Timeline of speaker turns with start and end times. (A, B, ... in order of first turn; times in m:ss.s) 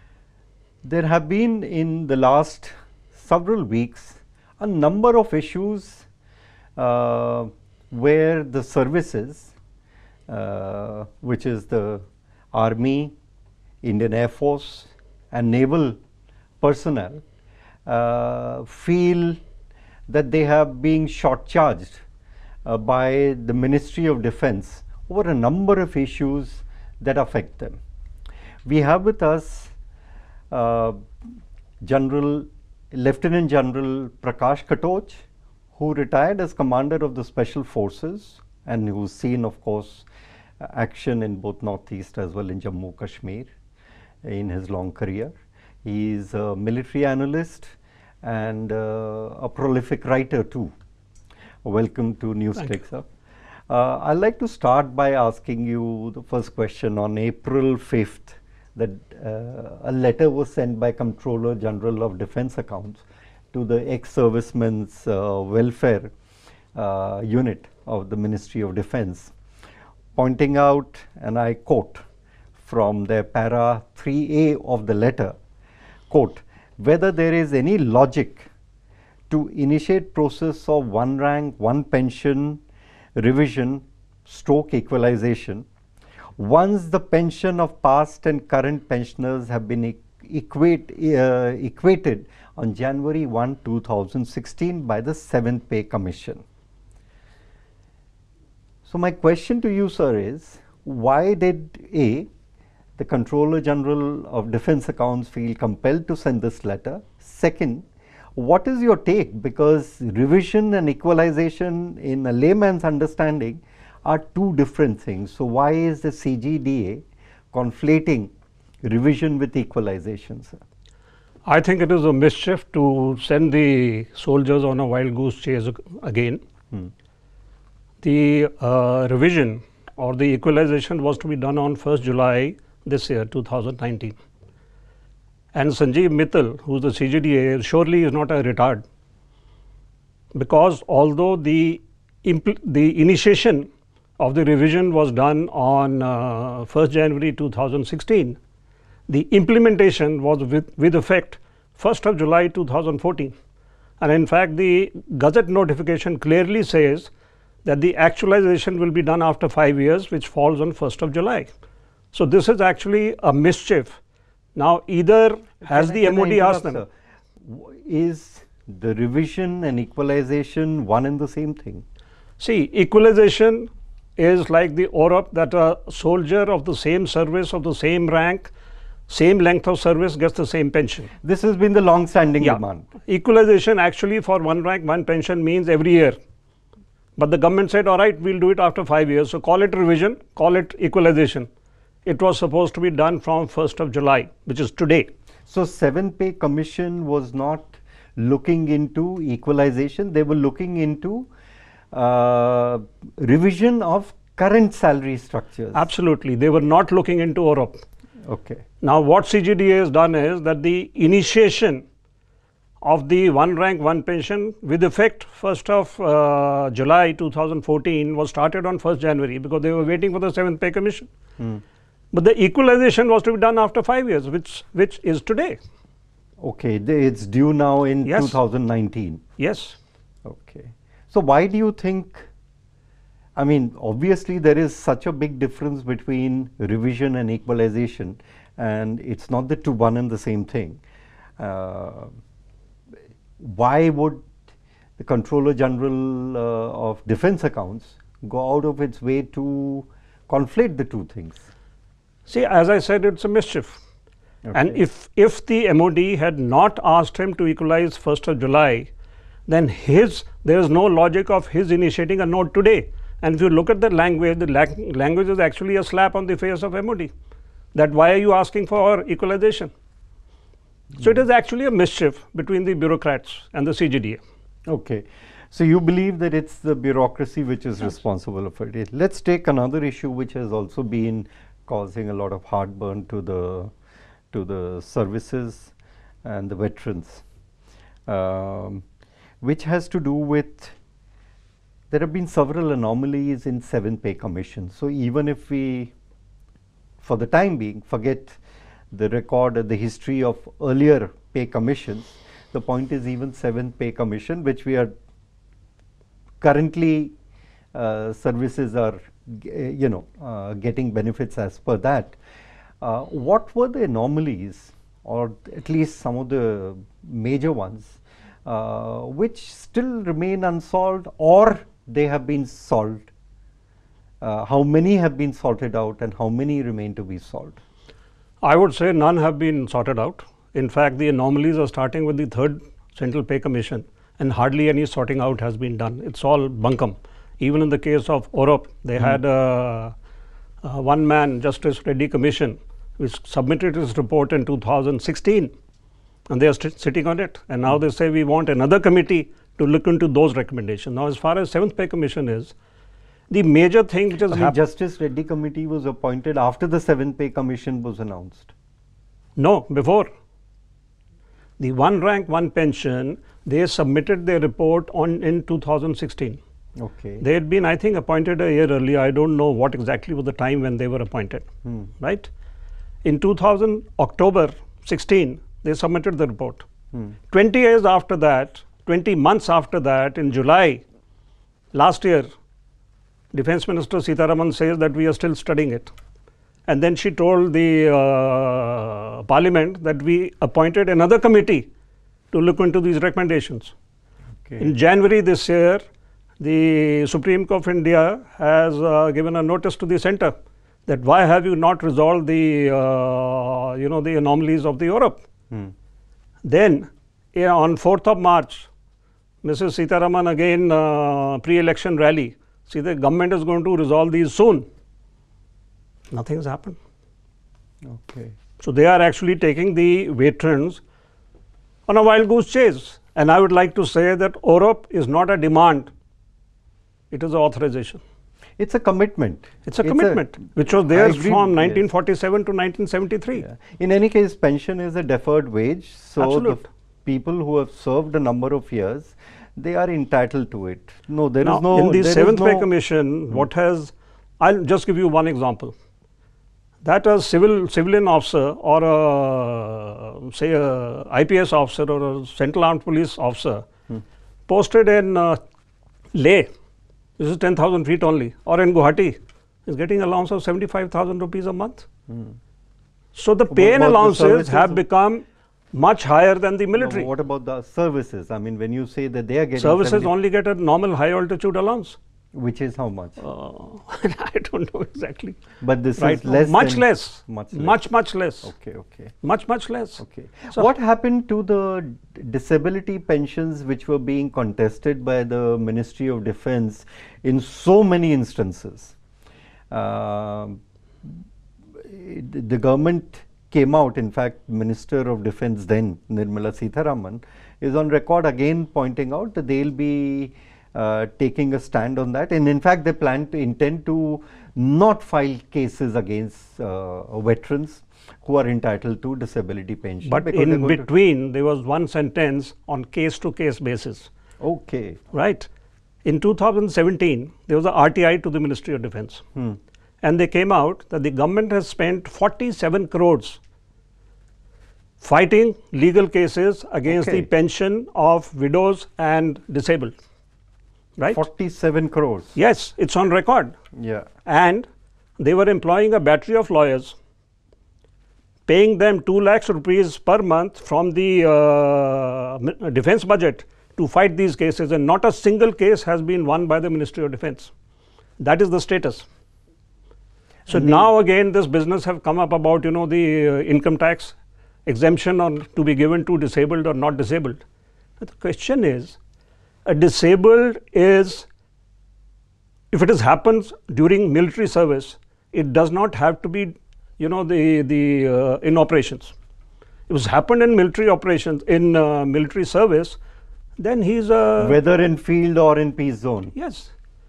0:00.8-0:06.1 A
0:06.8-0:09.5 A
0:10.3-0:13.1 A
0:13.8-0:16.0 A
0:16.6-0:17.2 A
0:17.9-0:19.4 A
0:20.1-0:22.0 A
0:22.6-0:27.8 A
0:28.6-0:29.7 A
0:30.5-0:31.1 A
0:31.8-0:35.2 A
0:35.8-0:40.1 A
0:40.6-0:43.5 A
0:44.2-0:45.3 A
0:45.8-0:50.7 A
0:51.6-0:53.1 A
0:53.7-1:06.1 A
1:06.8-1:09.3 A
1:10.2-1:12.0 A
1:12.6-1:15.3 A
1:16.1-1:18.5 A
1:19.3-1:22.6 A
1:23.2-1:25.7 A
1:26.4-1:36.4 A
1:38.9-1:42.3 A
1:43.0-1:58.3 A
1:58.8-2:00.6 A
2:01.4-2:06.4 B
2:08.0-2:14.2 B
2:15.5-2:18.8 B
2:20.3-2:28.4 B
2:29.1-2:33.3 B
2:34.0-2:37.1 B
2:37.6-2:41.5 B
2:42.1-2:44.0 B
2:44.6-2:46.8 B
2:45.6-2:46.9 A
2:47.4-2:51.8 A
2:52.4-2:58.5 B
2:59.1-3:01.1 B
3:01.2-3:02.9 A
3:02.4-3:06.2 B
3:07.2-3:11.5 B
3:12.0-3:15.1 B
3:15.5-3:21.3 A
3:21.9-3:25.8 A
3:25.7-3:27.8 B
3:28.2-3:28.6 A
3:28.8-3:31.8 B
3:32.8-3:41.1 B
3:42.1-3:45.6 B
3:46.4-3:49.2 A
3:48.0-3:48.4 B
3:49.4-3:49.8 B
3:50.2-3:52.3 A
3:53.4-4:00.8 A
4:01.4-4:02.1 A
4:03.4-4:04.3 A
4:05.0-4:11.5 A
4:12.3-4:13.8 B
4:14.4-4:14.8 A
4:14.5-4:18.9 B
4:19.5-4:27.1 B
4:27.7-4:29.7 B
4:31.0-4:34.2 B
4:34.7-4:43.7 A
4:44.3-4:47.2 A
4:48.1-4:48.8 A
4:49.4-4:50.8 A
4:51.9-4:55.9 A
4:57.0-4:58.4 A
4:58.9-5:04.9 A
5:06.4-5:07.1 A
5:07.7-5:12.2 A
5:12.8-5:23.1 A
5:24.2-5:27.6 A
5:28.4-5:39.9 B
5:40.6-5:45.5 B
5:46.3-5:52.5 B
5:53.3-5:54.6 B
5:54.2-5:58.5 A
5:59.4-6:00.1 B
6:01.6-6:06.4 B
6:06.8-6:07.2 A
6:07.2-6:11.4 B
6:12.0-6:12.3 B
6:13.0-6:16.6 B
6:17.3-6:20.8 B
6:21.7-6:22.3 B
6:23.3-6:25.9 B
6:26.7-6:31.7 B
6:32.3-6:33.7 B
6:34.4-6:34.7 A
6:34.6-6:35.8 B
6:36.4-6:40.3 B
6:40.9-6:45.2 B
6:46.4-6:48.7 B
6:49.4-6:54.6 B
6:56.1-6:56.8 B
6:57.8-6:58.3 A
6:58.6-7:00.8 B
7:01.9-7:05.9 B
7:07.1-7:08.0 B
7:08.6-7:10.4 A
7:09.6-7:13.4 B
7:10.9-7:11.8 A
7:13.4-7:22.7 A
7:16.2-7:16.6 B
7:21.4-7:25.8 B
7:26.8-7:33.7 B
7:34.5-7:35.4 B
7:36.1-7:36.5 B
7:37.2-7:41.9 B
7:42.1-7:42.3 A
7:43.1-7:47.1 B
7:43.5-7:44.8 A
7:46.8-7:50.1 A
7:49.6-7:52.0 B
7:52.3-7:53.2 A
7:53.2-7:55.4 B
7:55.6-7:57.8 A
7:56.0-7:58.5 B
7:58.4-7:59.1 A
7:59.2-8:00.6 B
8:00.0-8:08.9 A
8:09.7-8:11.2 A
8:11.8-8:30.9 A
8:30.0-8:34.1 B
8:34.4-8:35.0 A
8:35.1-8:35.5 B
8:36.0-8:39.2 B
8:40.0-8:43.4 B
8:45.0-8:49.9 B
8:46.9-8:47.3 A
8:51.0-8:51.2 B
8:51.1-8:52.4 A
8:52.4-8:53.6 B
8:53.8-8:54.1 A
8:54.2-8:57.0 B
8:58.5-9:07.5 B
9:08.2-9:09.1 B
9:10.5-9:10.8 A
9:10.5-9:17.4 B
9:18.0-9:19.0 B
9:19.7-9:21.3 B
9:22.7-9:29.2 B
9:29.9-9:33.0 B
9:33.6-9:34.6 B
9:34.4-9:36.3 A
9:36.4-9:36.7 B